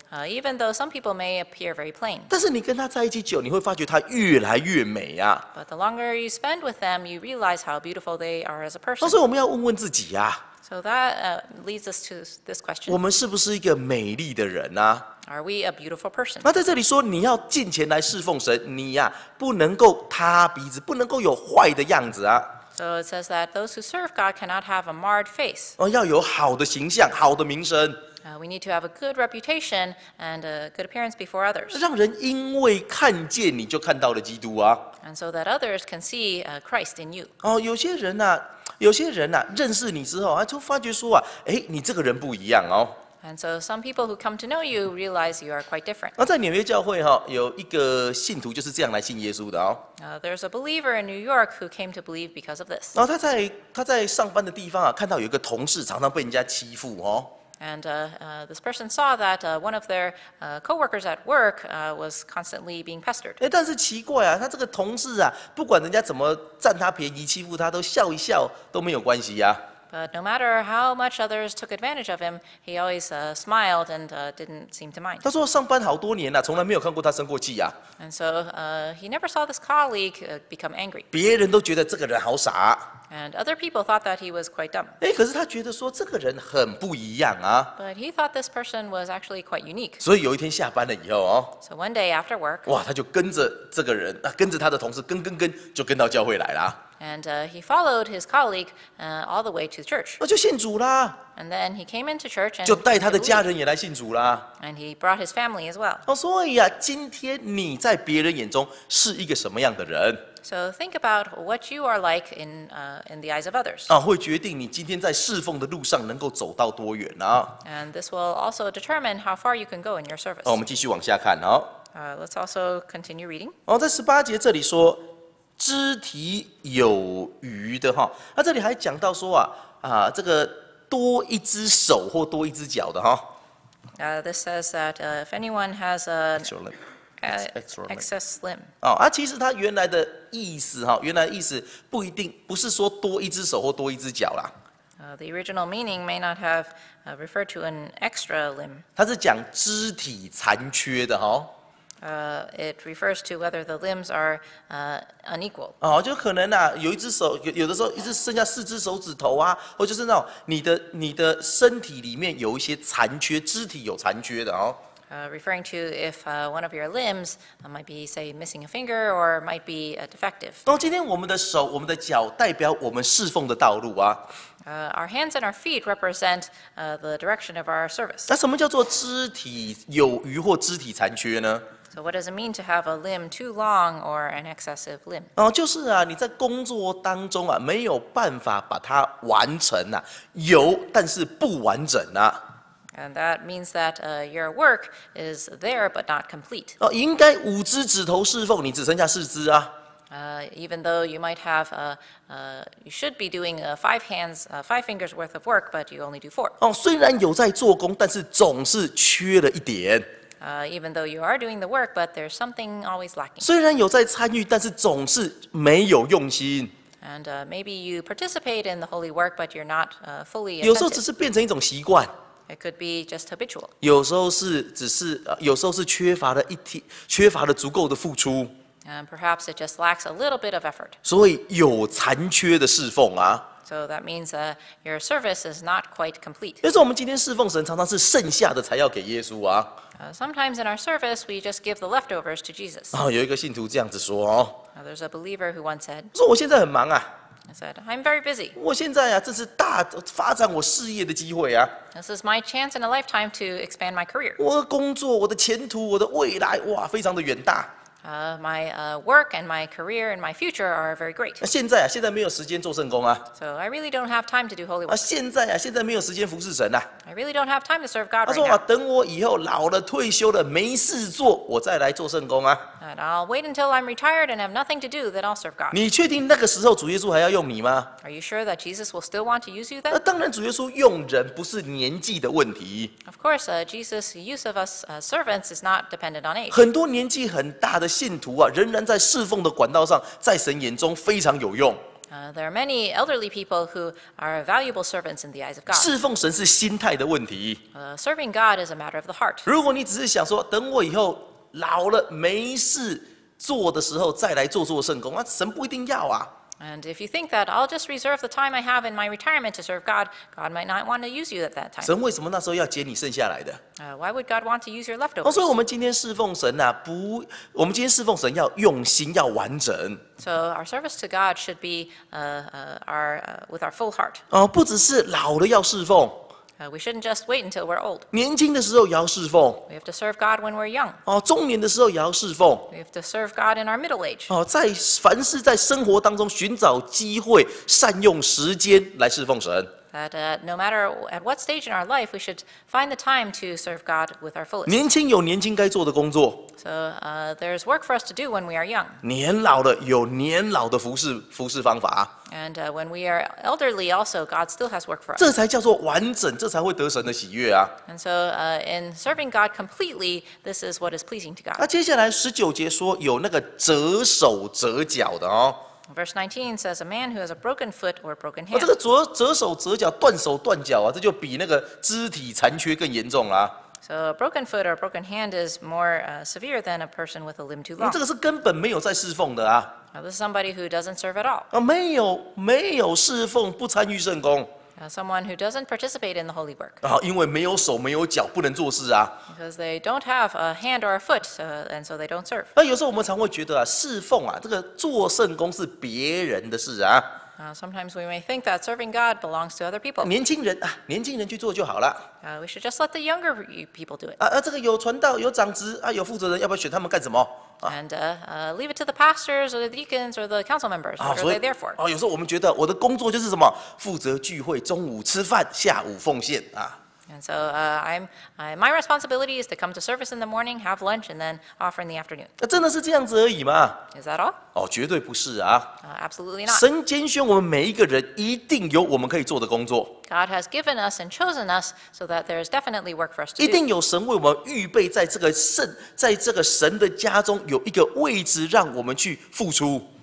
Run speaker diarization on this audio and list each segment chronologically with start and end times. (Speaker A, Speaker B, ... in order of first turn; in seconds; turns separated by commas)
Speaker A: 0.1-2.3, Speaker B: 2.3-5.5, Speaker A: 5.5-9.2, Speaker B: 9.0-10.4, Speaker A: 10.6-13.0, Speaker B: 12.9-15.1, Speaker A: 15.2-16.5, Speaker B: 16.4-22.5, Speaker A: 22.8-25.8, Speaker B: 25.8-28.0, Speaker A: 28.2-31.8, Speaker B: 31.7-34.9, Speaker A: 35.0-37.3, Speaker B: 37.4-43.0, Speaker A: 43.2-46.1, Speaker B: 46.2-49.8, Speaker A: 50.0-53.0, Speaker B: 52.9-57.3, Speaker A: 57.6-63.4, Speaker B: 63.4-69.6, Speaker A: 69.9-75.2, Speaker B: 75.2-77.8, Speaker A: 78.0-81.1, Speaker B: 81.1-82.9, Speaker A: 83.1-85.0, Speaker B: 85.0-87.7, Speaker A: 87.8-90.0, Speaker B: 90.0-91.5, Speaker A: 91.6-92.7, Speaker B: 92.7-96.8, Speaker A: 97.0-100.2, Speaker B: 100.2-101.2, Speaker A: 101.3-103.5, Speaker B: 102.6-104.5, Speaker A: 104.6-106.0, Speaker B: 106.1-110.2, Speaker A: 110.4-113.9, Speaker B: 113.9-117.6, Speaker A: 117.6-120.6, Speaker B: 120.4-121.7, Speaker A: 121.9-123.6, Speaker B: 123.7-133.3, Speaker A: 134.0-136.5, Speaker B: 136.4-136.8, Speaker A: 137.2-138.7, Speaker B: 137.5-138.0, Speaker B: 138.8-144.5, Speaker A: 145.0-148.8, Speaker B: 149.0-151.5, Speaker A: 152.0-155.8, Speaker B: 155.8-164.8, Speaker A: 165.1-170.7, Speaker B: 170.7-174.2, Speaker A: 174.7-178.3, Speaker B: 178.3-181.6, Speaker A: 181.9-185.3, Speaker B: 185.4-192.4, Speaker A: 193.0-196.8, Speaker B: 196.8-199.7, Speaker A: 200.1-206.6, Speaker B: 206.6-210.1, Speaker A: 210.4-213.5, Speaker B: 213.4-216.7, Speaker A: 217.0-221.0, Speaker B: 220.6-222.1, Speaker A: 222.5-223.7, Speaker B: 223.8-228.5, Speaker A: 228.8-231.0, Speaker B: 231.0-233.5, Speaker A: 233.6-236.6, Speaker B: 236.6-239.7, Speaker A: 240.0-243.0, Speaker B: 242.9-244.6, Speaker A: 244.8-246.1, Speaker B: 246.1-247.1, Speaker A: 247.5-248.6, Speaker B: 248.6-251.7, Speaker A: 251.9-254.4, Speaker B: 254.4-257.7, Speaker A: 258.0-261.4, Speaker B: 261.4-263.3, Speaker A: 263.3-265.0, Speaker B: 264.9-266.9, Speaker A: 267.0-268.6, Speaker B: 268.3-272.6, Speaker A: 272.8-275.8, Speaker B: 275.7-277.9, Speaker A: 278.0-280.0, Speaker B: 279.9-282.9, Speaker A: 283.1-286.6, Speaker B: 286.5-291.8, Speaker A: 292.1-295.9, Speaker B: 295.7-297.6, Speaker A: 297.7-299.5, Speaker B: 299.5-306.3, Speaker A: 306.6-311.9, Speaker B: 311.8-313.6, Speaker A: 313.8-315.6, Speaker B: 315.2-320.0, Speaker A: 320.2-324.2, Speaker B: 324.3-326.3, Speaker A: 326.6-328.1, Speaker B: 328.1-329.6, Speaker A: 329.7-331.0, Speaker B: 331.1-332.7, Speaker A: 332.7-334.4, Speaker B: 334.3-339.7, Speaker A: 339.9-344.9, Speaker B: 344.6-346.5, Speaker A: 346.6-349.0, Speaker B: 349.0-352.1, Speaker A: 352.3-355.3, Speaker B: 355.2-357.8, Speaker A: 357.9-361.7, Speaker B: 361.6-365.6, Speaker A: 365.9-368.7, Speaker B: 368.5-373.6, Speaker A: 373.8-378.0, Speaker B: 377.8-379.7, Speaker A: 379.9-381.5, Speaker B: 381.5-384.5, Speaker A: 384.8-386.8, Speaker B: 386.8-389.1, Speaker A: 389.3-392.5, Speaker B: 392.6-397.1, Speaker A: 397.4-400.1, Speaker B: 400.0-402.1, Speaker A: 402.2-404.2, Speaker B: 404.2-407.7, Speaker A: 407.6-411.8, Speaker B: 411.0-416.8, Speaker A: 417.1-422.3, Speaker B: 422.4-423.8, Speaker A: 423.9-424.4, Speaker B: 424.5-425.8, Speaker A: 425.8-426.6, Speaker B: 426.5-430.0, Speaker A: 430.1-433.6, Speaker B: 433.4-439.9